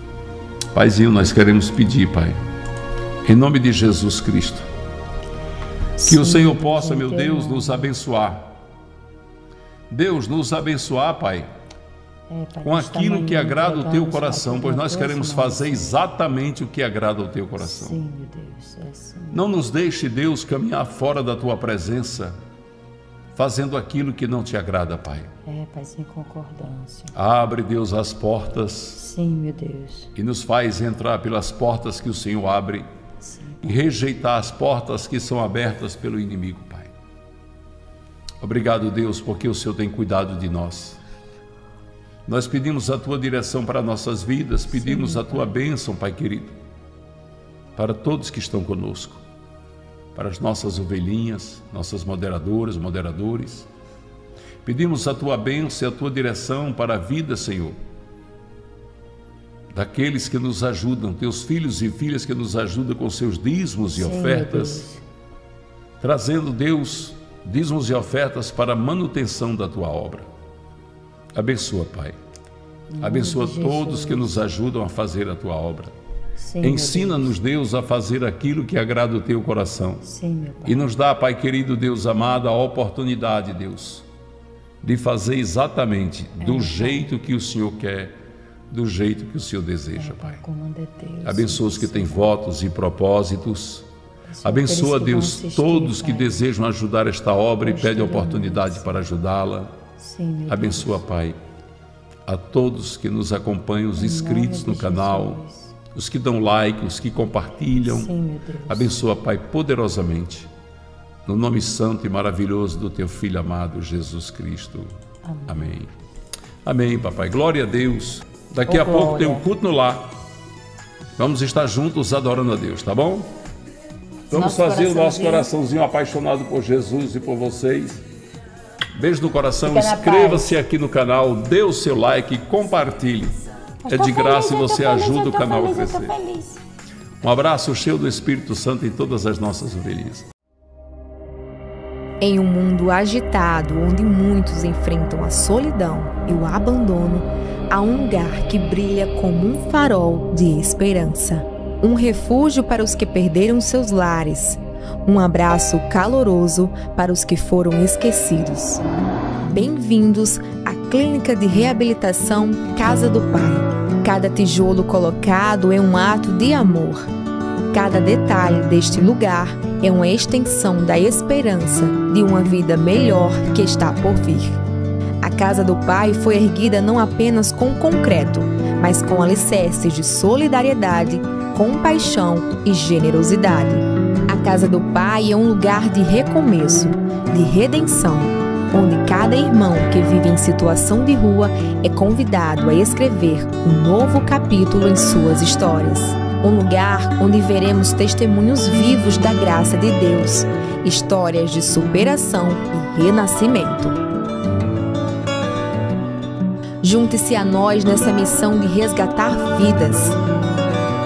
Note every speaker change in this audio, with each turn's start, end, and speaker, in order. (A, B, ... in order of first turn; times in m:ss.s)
0:00.7-0:02.4 A
0:03.2-0:04.6 A
0:06.0-0:07.9 B
0:06.0-0:08.5 A
0:09.9-0:11.5 A
0:12.3-0:15.9 B
0:12.6-0:18.0 A
0:17.6-0:19.4 B
0:19.3-0:22.3 A
0:23.4-0:25.3 A
0:25.4-0:27.1 B
0:27.1-0:29.0 A
0:28.9-0:30.1 B
0:30.1-0:32.8 A
0:33.2-0:33.8 B
0:33.6-0:36.9 A
0:38.4-0:41.0 A
0:42.2-0:46.5 A
0:44.8-0:45.5 B
0:47.8-0:49.2 A
0:50.1-0:53.7 A
0:54.6-0:57.8 A
0:59.7-1:04.8 A
1:04.0-1:05.0 B
1:06.0-1:10.3 A
1:11.3-1:12.1 A
1:12.9-1:14.4 B
1:13.0-1:15.9 A
1:16.4-1:17.3 B
1:16.6-1:20.0 A
1:20.0-1:20.9 B
1:20.6-1:24.0 A
1:24.8-1:28.1 A
1:26.4-1:27.1 B
1:28.7-1:30.4 A
1:30.0-1:32.3 B
1:31.2-1:33.9 A
1:34.3-1:36.4 B
1:34.4-1:39.7 A
1:37.6-1:39.0 B
1:40.0-1:41.0 B
1:40.5-1:41.4 A
1:42.2-1:45.4 A
1:44.0-1:45.7 B
1:45.9-1:48.1 A
1:47.8-1:48.9 B
1:48.7-1:50.5 A
1:51.2-1:54.9 A
1:55.2-1:55.7 B
1:55.5-1:55.9 A
1:56.6-2:00.1 A
1:58.7-1:59.4 B
2:01.2-2:03.3 A
2:04.3-2:08.0 A
2:04.3-2:05.5 B
2:08.9-2:16.1 A
2:09.6-2:10.5 B
2:13.8-2:16.6 B
2:17.2-2:20.3 A
2:22.2-2:38.8 C
2:39.5-2:47.0 C
2:47.7-2:54.6 C
2:55.2-3:24.0 C
3:26.8-3:30.2 C